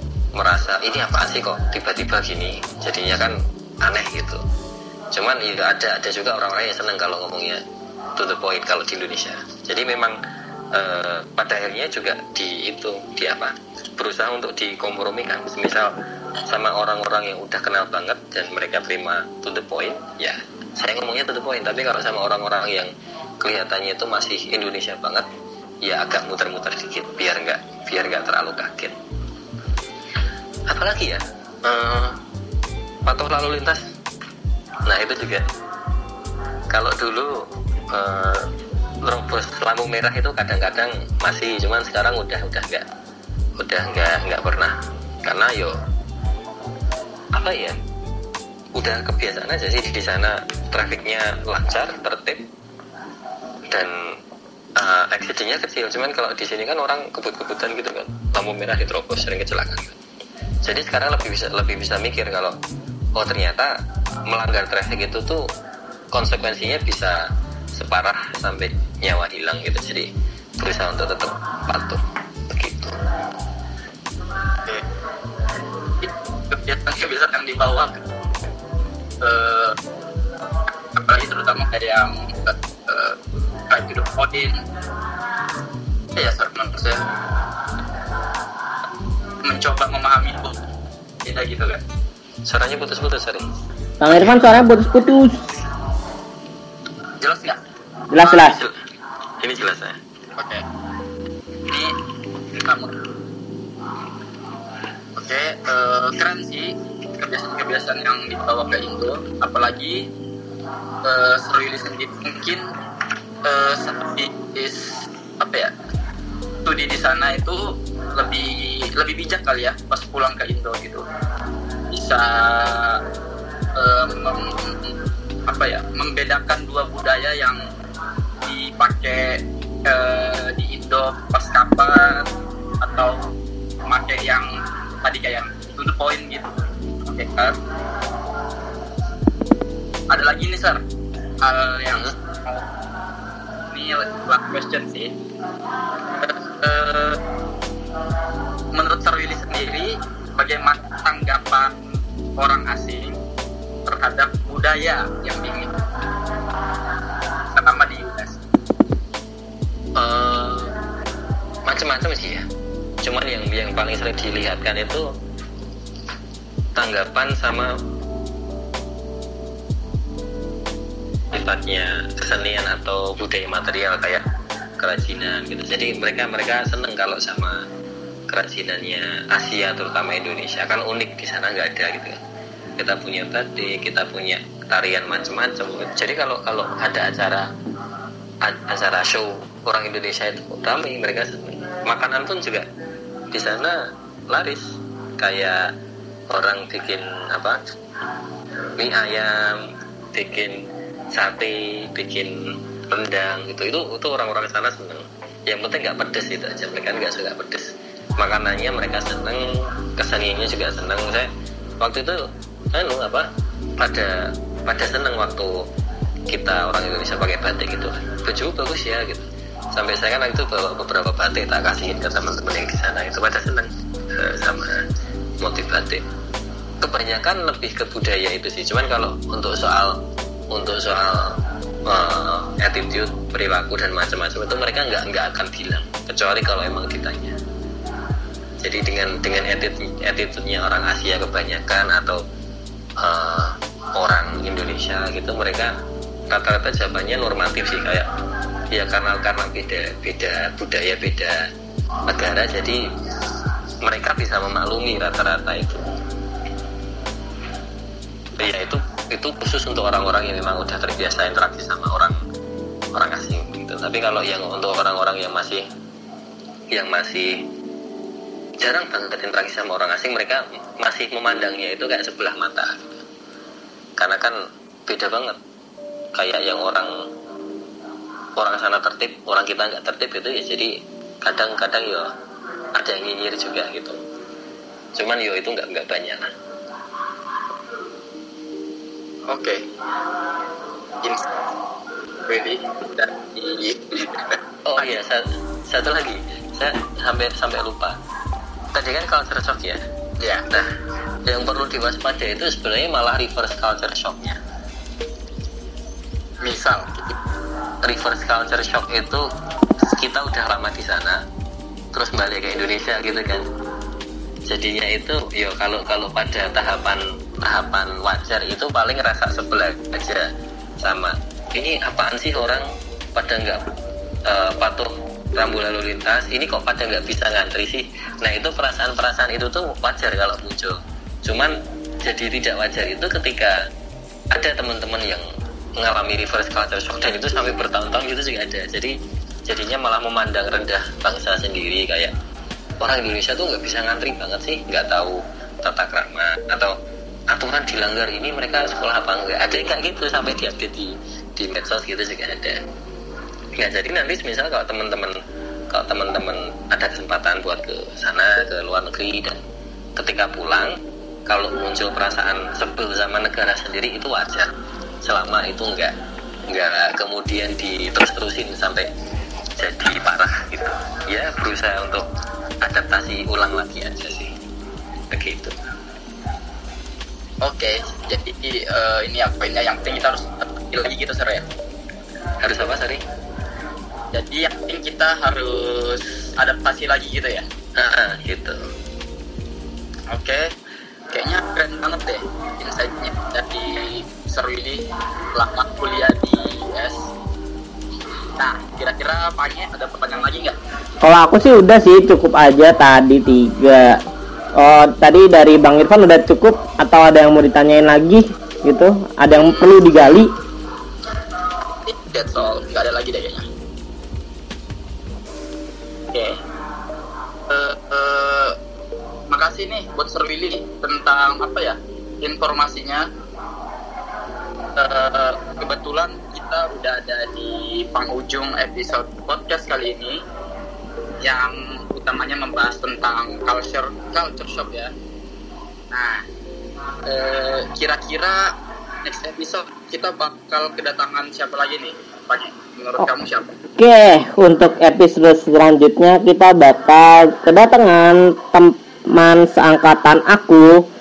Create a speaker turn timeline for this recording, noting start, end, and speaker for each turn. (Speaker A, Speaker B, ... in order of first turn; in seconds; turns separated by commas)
Speaker A: 0.3-4.4, Speaker A: 5.1-7.6, Speaker A: 8.2-10.2, Speaker A: 10.7-15.9, Speaker A: 16.5-25.3, Speaker A: 25.8-29.0, Speaker A: 30.7-32.2, Speaker A: 33.1-33.9, Speaker A: 34.9-35.5, Speaker A: 36.7-38.5, Speaker A: 39.0-42.9, Speaker A: 43.6-45.8, Speaker A: 47.3-47.8, Speaker A: 48.8-52.5, Speaker A: 53.7-54.2, Speaker A: 54.8-60.0, Speaker A: 60.6-62.6, Speaker A: 63.2-65.5, Speaker A: 66.1-73.0, Speaker B: 76.0-78.0, Speaker B: 79.2-79.8, Speaker B: 81.0-84.6, Speaker B: 86.2-87.0, Speaker B: 89.4-90.6, Speaker B: 91.2-91.8, Speaker A: 92.5-93.5, Speaker C: 94.0-95.4, Speaker B: 97.2-97.6, Speaker C: 98.1-98.6, Speaker A: 98.2-98.8, Speaker A: 99.4-100.0, Speaker B: 100.4-100.7, Speaker B: 101.7-102.0, Speaker B: 102.5-103.0, Speaker B: 105.2-110.1, Speaker B: 111.0-112.7, Speaker B: 113.4-115.7, Speaker B: 116.7-121.0, Speaker B: 121.9-123.0, Speaker B: 123.8-127.6, Speaker B: 128.4-132.3, Speaker B: 132.8-133.2, Speaker B: 133.9-134.5, Speaker B: 135.0-136.5, Speaker B: 137.1-137.6, Speaker B: 140.1-140.8, Speaker B: 141.4-142.7, Speaker B: 143.7-145.1, Speaker B: 146.2-147.2, Speaker B: 148.7-151.8, Speaker B: 152.4-153.2, Speaker B: 153.9-155.7, Speaker B: 157.5-158.4, Speaker A: 160.0-160.7, Speaker A: 161.7-162.4, Speaker A: 163.0-165.1, Speaker A: 166.8-167.8, Speaker A: 171.3-174.2, Speaker A: 174.8-177.6, Speaker A: 178.3-182.2, Speaker A: 182.8-187.5, Speaker A: 188.4-192.7, Speaker A: 193.3-195.7, Speaker A: 196.3-197.6, Speaker A: 198.8-213.3, Speaker A: 213.8-215.7, Speaker A: 216.3-224.8, Speaker A: 225.4-226.0, Speaker A: 226.8-237.4, Speaker A: 238.6-242.2, Speaker A: 243.0-245.7, Speaker A: 246.3-248.1, Speaker A: 248.7-251.5, Speaker A: 252.1-252.8, Speaker A: 253.8-255.9, Speaker A: 258.4-262.2, Speaker A: 262.9-265.6, Speaker A: 266.7-267.5, Speaker A: 268.6-273.0, Speaker A: 274.0-275.4, Speaker A: 276.1-276.9, Speaker A: 278.4-282.1, Speaker A: 282.8-284.0, Speaker A: 285.0-286.3, Speaker B: 289.3-289.7, Speaker B: 291.0-291.3, Speaker B: 292.3-295.0, Speaker A: 294.7-298.0, Speaker A: 298.7-299.8, Speaker B: 300.2-300.5, Speaker A: 301.3-304.4, Speaker B: 306.4-307.1, Speaker A: 307.8-309.3, Speaker A: 309.8-311.2, Speaker A: 311.9-313.5, Speaker A: 314.5-320.3, Speaker A: 320.8-323.7, Speaker A: 324.3-333.6, Speaker A: 334.3-335.2, Speaker A: 335.8-342.1, Speaker A: 342.8-346.7, Speaker A: 347.3-352.6, Speaker A: 353.6-355.2, Speaker A: 355.7-359.4, Speaker A: 360.0-360.8, Speaker A: 361.3-364.5, Speaker A: 365.0-365.9, Speaker A: 366.5-368.9, Speaker A: 369.6-372.1, Speaker A: 372.6-374.3, Speaker A: 375.1-375.5, Speaker B: 377.4-381.5, Speaker A: 382.4-383.0, Speaker B: 384.1-387.5, Speaker A: 387.8-388.6, Speaker B: 390.1-390.5, Speaker B: 391.1-394.8, Speaker B: 395.4-397.1, Speaker B: 398.4-400.6, Speaker C: 401.0-404.0, Speaker C: 404.6-410.3, Speaker B: 409.3-409.9, Speaker B: 411.9-413.5, Speaker B: 416.1-416.4, Speaker B: 417.5-418.6, Speaker B: 419.3-423.1, Speaker B: 424.8-430.2, Speaker B: 431.2-434.9, Speaker B: 435.9-436.2, Speaker B: 437.1-443.5, Speaker C: 443.8-450.9